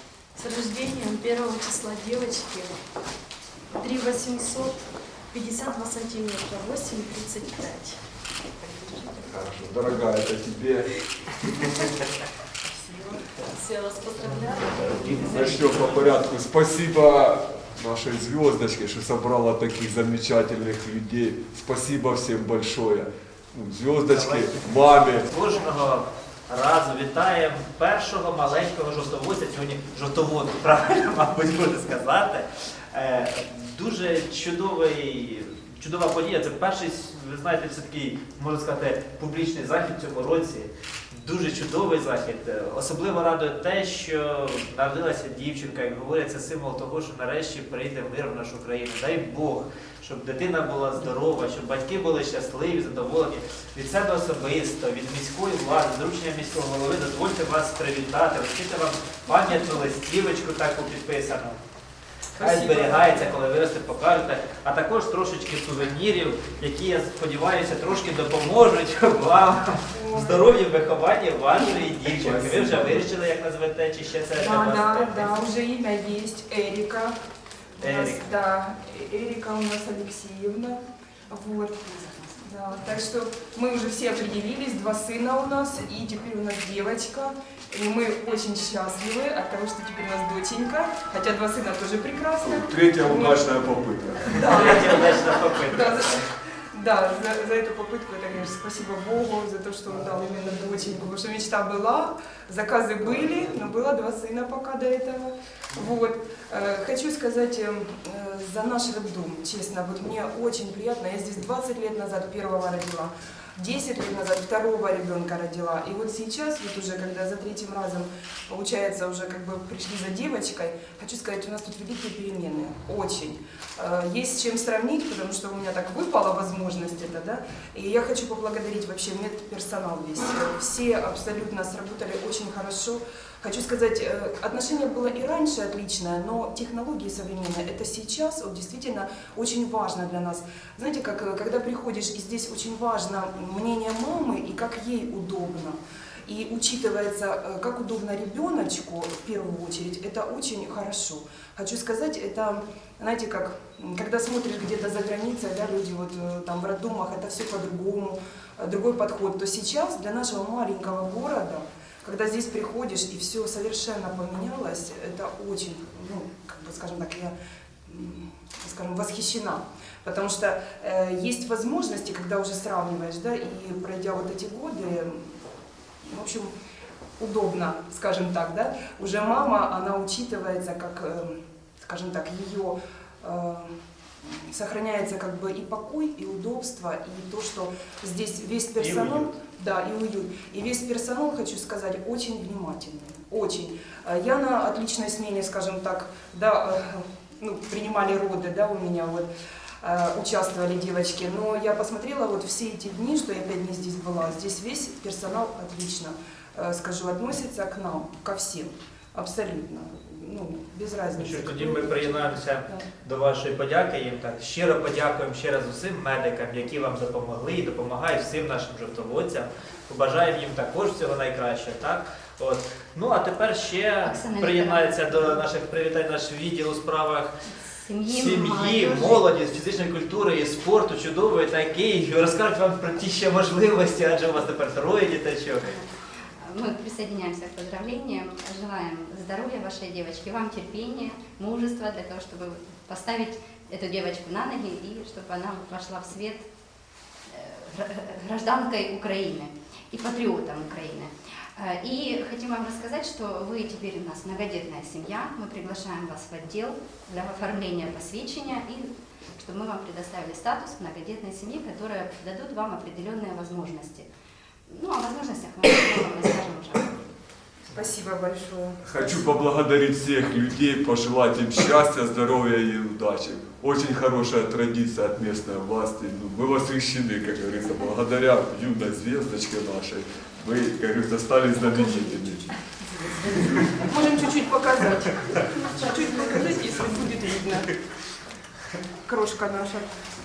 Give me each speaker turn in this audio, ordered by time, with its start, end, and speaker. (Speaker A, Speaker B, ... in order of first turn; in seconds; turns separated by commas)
Speaker A: 0.3-2.8, Speaker A: 3.7-8.0, Speaker B: 9.2-10.9, Speaker C: 12.8-13.2, Speaker A: 13.5-14.8, Speaker D: 14.2-16.2, Speaker B: 15.2-25.3, Speaker D: 24.1-61.6, Speaker C: 62.4-63.3, Speaker D: 62.4-75.4, Speaker C: 69.9-70.5, Speaker B: 72.0-73.1, Speaker C: 74.3-77.1, Speaker C: 77.8-93.4, Speaker D: 77.8-78.2, Speaker B: 92.4-94.5, Speaker C: 94.3-167.3, Speaker D: 94.4-96.2, Speaker C: 167.9-175.3, Speaker C: 176.0-176.5, Speaker C: 177.2-183.7, Speaker C: 184.2-199.3, Speaker D: 188.8-189.3, Speaker C: 199.8-212.8, Speaker D: 211.2-227.3, Speaker E: 224.0-225.4, Speaker E: 227.7-229.2, Speaker D: 228.1-235.7, Speaker E: 236.4-246.4, Speaker E: 247.3-264.1, Speaker E: 264.7-267.0, Speaker C: 267.7-269.3, Speaker B: 268.8-282.5, Speaker C: 281.6-282.5, Speaker C: 283.1-287.7, Speaker C: 289.0-289.9